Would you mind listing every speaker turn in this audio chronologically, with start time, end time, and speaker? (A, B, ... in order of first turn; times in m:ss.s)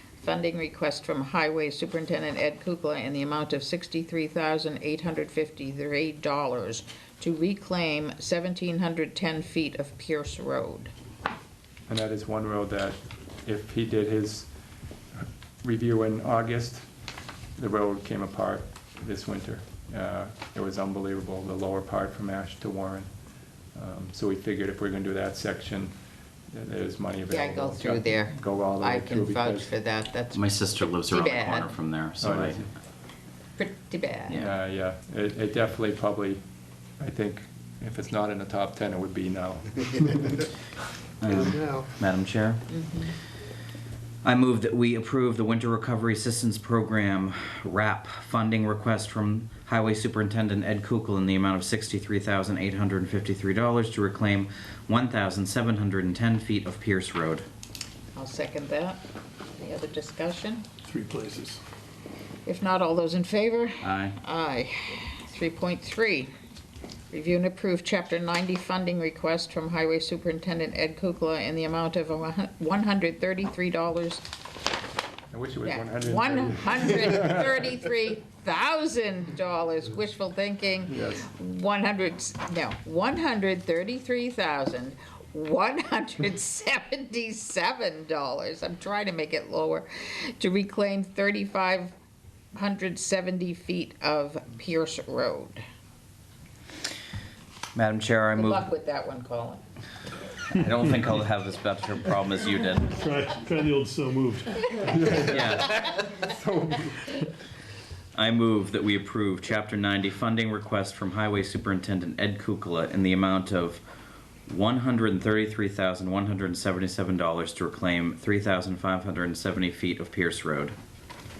0:00.2-0:10.9 A
0:11.9-0:14.5 B
0:15.2-0:16.8 B
0:17.6-0:23.1 B
0:23.7-0:25.9 B
0:26.5-0:29.7 B
0:27.3-0:31.7 A
0:30.3-0:32.6 C
0:32.2-0:32.6 B
0:33.6-0:34.5 A
0:34.3-0:34.5 C
0:34.3-0:36.4 B
0:37.0-0:39.8 B
0:41.2-0:42.6 C
0:42.7-0:43.1 A
0:44.2-0:57.4 C
0:58.1-0:59.0 A
0:59.6-1:00.6 A
1:00.8-1:01.6 D
1:02.4-1:06.3 A
1:03.8-1:04.2 C
1:07.1-1:14.2 A
1:15.3-1:17.5 B
1:15.6-1:31.9 A
1:20.9-1:21.2 B
1:32.6-1:35.6 A
1:37.7-1:38.6 C
1:38.3-1:39.6 A
1:40.5-1:42.9 C
1:42.9-1:44.7 D
1:44.7-1:47.1 B
1:45.1-1:45.8 C
1:48.1-1:53.8 C
1:54.4-2:00.8 C